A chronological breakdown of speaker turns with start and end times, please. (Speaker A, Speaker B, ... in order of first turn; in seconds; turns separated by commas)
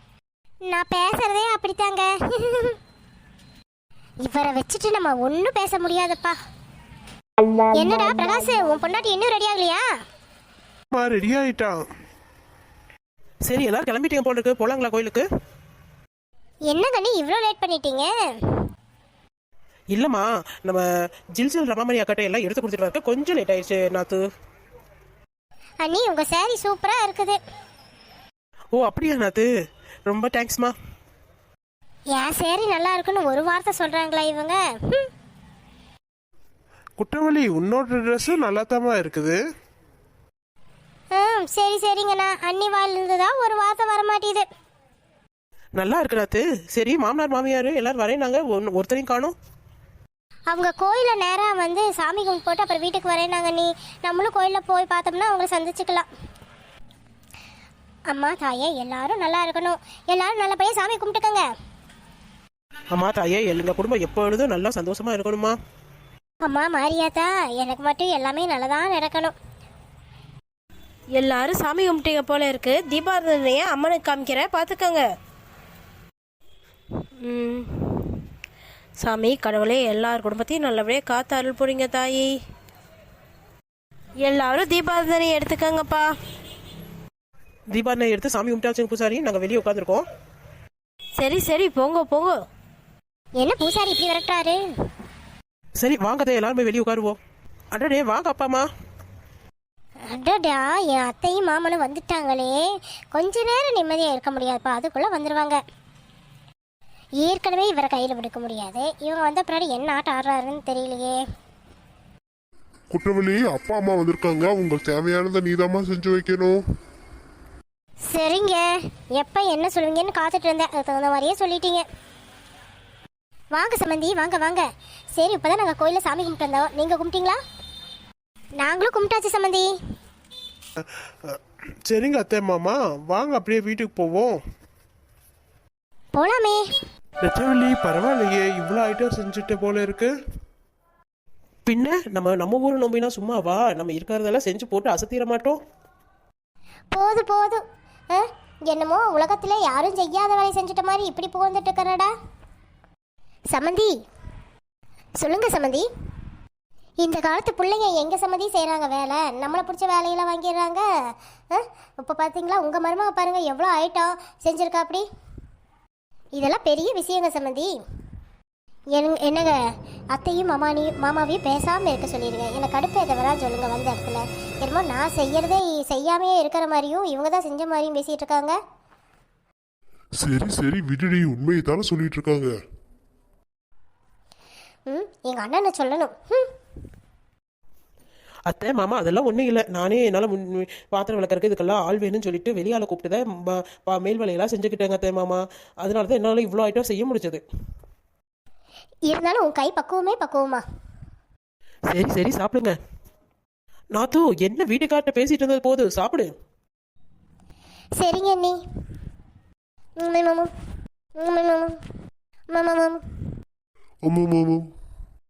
Speaker A: 0.7-2.8, Speaker A: 4.2-6.4, Speaker A: 7.8-9.8, Speaker B: 10.9-11.8, Speaker C: 13.5-15.2, Speaker A: 16.7-18.1, Speaker C: 19.9-24.3, Speaker A: 25.8-27.4, Speaker C: 28.7-29.5, Speaker C: 30.1-30.7, Speaker A: 32.1-35.1, Speaker B: 37.0-39.4, Speaker A: 41.1-44.5, Speaker C: 45.8-49.3, Speaker A: 50.5-56.1, Speaker A: 58.1-61.4, Speaker C: 62.9-65.6, Speaker A: 66.4-69.3, Speaker D: 71.2-75.0, Speaker D: 77.2-78.2, Speaker D: 79.0-82.3, Speaker D: 84.2-86.1, Speaker C: 87.7-90.0, Speaker D: 91.2-92.4, Speaker A: 93.4-94.6, Speaker C: 95.8-97.2, Speaker C: 97.7-98.7, Speaker A: 100.1-102.6, Speaker A: 103.1-105.6, Speaker A: 107.2-111.2, Speaker E: 112.9-116.6, Speaker A: 118.1-121.8, Speaker A: 123.5-127.4, Speaker A: 128.6-129.7, Speaker B: 130.8-134.4, Speaker A: 136.2-136.6, Speaker B: 137.2-140.1, Speaker C: 141.7-145.6, Speaker A: 146.9-152.1, Speaker A: 153.5-153.9, Speaker A: 155.2-155.9, Speaker A: 157.0-160.8, Speaker A: 161.5-165.0, Speaker A: 166.4-167.7, Speaker A: 168.9-169.6, Speaker A: 170.1-178.6, Speaker E: 180.2-182.5, Speaker A: 184.9-186.5, Speaker C: 188.5-197.4, Speaker A: 199.1-200.6, Speaker C: 201.9-202.8, Speaker C: 203.9-206.3, Speaker A: 208.0-208.6, Speaker A: 210.0-210.5, Speaker A: 211.2-211.8, Speaker A: 212.5-213.0, Speaker E: 214.1-214.7